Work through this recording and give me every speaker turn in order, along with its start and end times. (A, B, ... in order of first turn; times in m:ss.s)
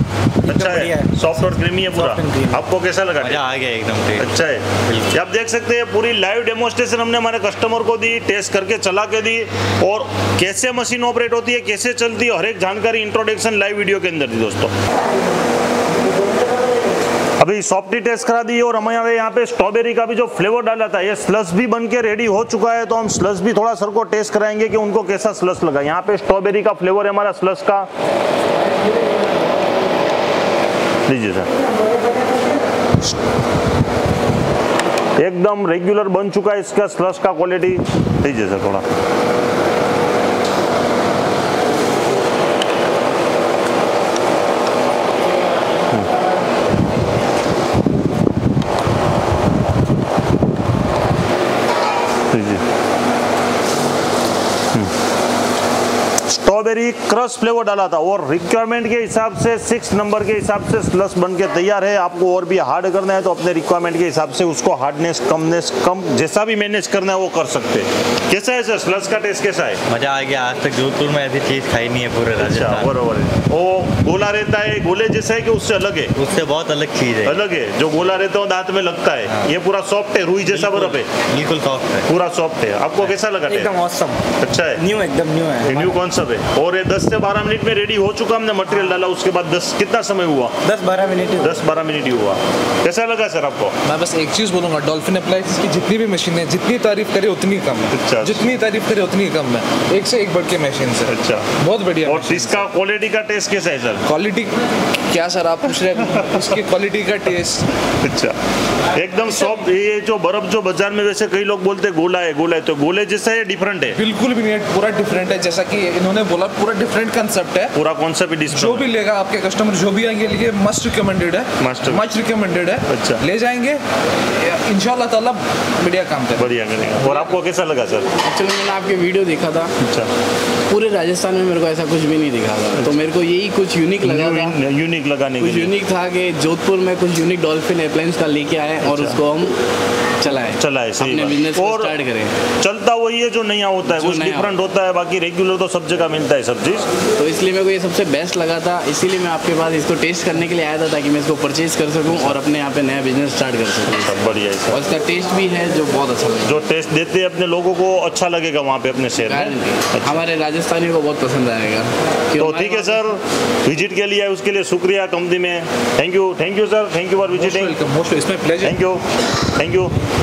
0:00.4-0:03.5 A
0:00.6-0:01.0 B
0:03.2-0:05.2 B
0:04.2-0:14.7 A
0:17.4-0:27.9 A
0:31.1-0:31.5 A
0:35.2-0:38.9 A
0:52.3-0:52.6 A
0:56.3-1:09.8 A
1:09.9-1:12.9 B
1:12.4-1:16.1 A
1:16.1-1:17.4 B
1:17.2-1:21.1 A
1:20.4-1:22.1 B
1:22.0-1:23.7 A
1:23.5-1:24.2 C
1:24.4-1:24.8 A
1:24.8-1:25.8 C
1:25.6-1:30.6 A
1:30.6-1:31.5 C
1:31.4-1:33.7 A
1:33.8-1:42.6 D
1:37.9-1:38.4 A
1:41.1-1:41.5 A
1:42.0-1:44.0 A
1:44.0-1:47.7 D
1:46.1-1:46.4 A
1:48.0-1:48.4 A
1:48.9-1:54.0 A
1:53.9-1:57.7 D
1:57.7-1:58.9 A
1:58.5-2:07.3 D
2:01.6-2:02.0 A
2:02.9-2:03.2 A
2:06.4-2:08.1 A
2:08.2-2:09.7 E
2:09.8-2:10.1 A
2:10.7-2:14.6 E
2:14.0-2:15.7 A
2:15.4-2:19.6 E
2:18.8-2:19.2 A
2:20.2-2:22.3 E
2:20.5-2:22.0 A
2:22.6-2:26.9 A
2:23.8-2:24.5 E
2:27.2-2:36.6 E
2:34.0-2:34.8 A
2:36.4-2:40.2 A
2:39.2-2:43.0 E
2:42.4-2:47.8 A
2:47.3-2:48.8 D
2:48.6-2:49.0 A
2:49.6-2:49.9 A